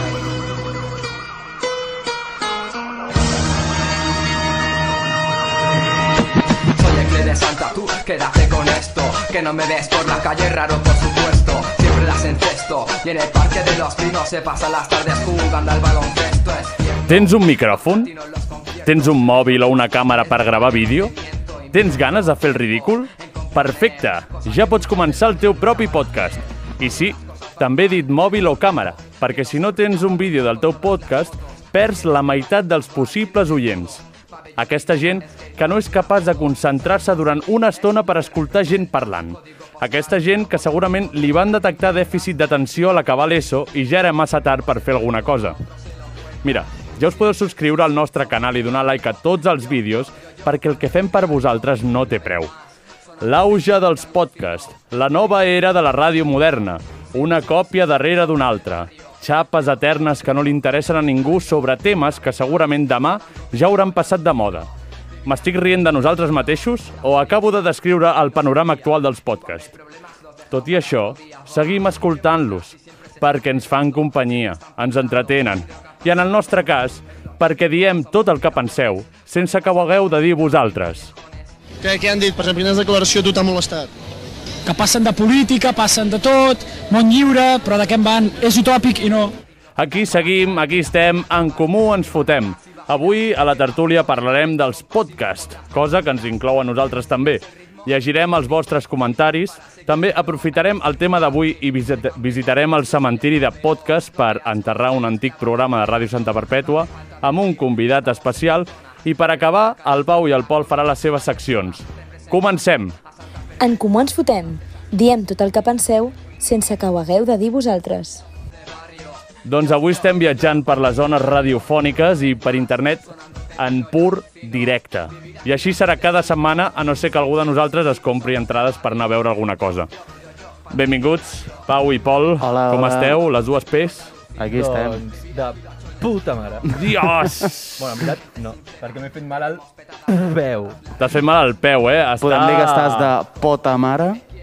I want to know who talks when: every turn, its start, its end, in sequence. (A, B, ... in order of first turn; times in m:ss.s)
0:06.8-0:17.5 A
0:17.0-0:18.1 B
0:18.1-0:18.9 A
0:18.8-0:21.1 B
0:21.7-0:34.0 B
0:34.6-0:45.6 B
0:46.4-0:52.5 B
0:53.2-1:04.7 B
1:05.2-1:09.7 B
1:10.5-1:21.1 B
1:21.8-1:23.9 C
1:24.6-1:29.4 D
1:29.8-1:53.0 B
1:53.6-1:58.2 E
1:59.4-2:09.9 B
2:10.7-2:14.1 B
2:12.4-2:13.2 F
2:14.4-2:15.0 F
2:14.5-2:16.8 G
2:16.7-2:18.0 B
2:17.8-2:20.8 G
2:21.0-2:23.1 B
2:22.2-2:24.2 F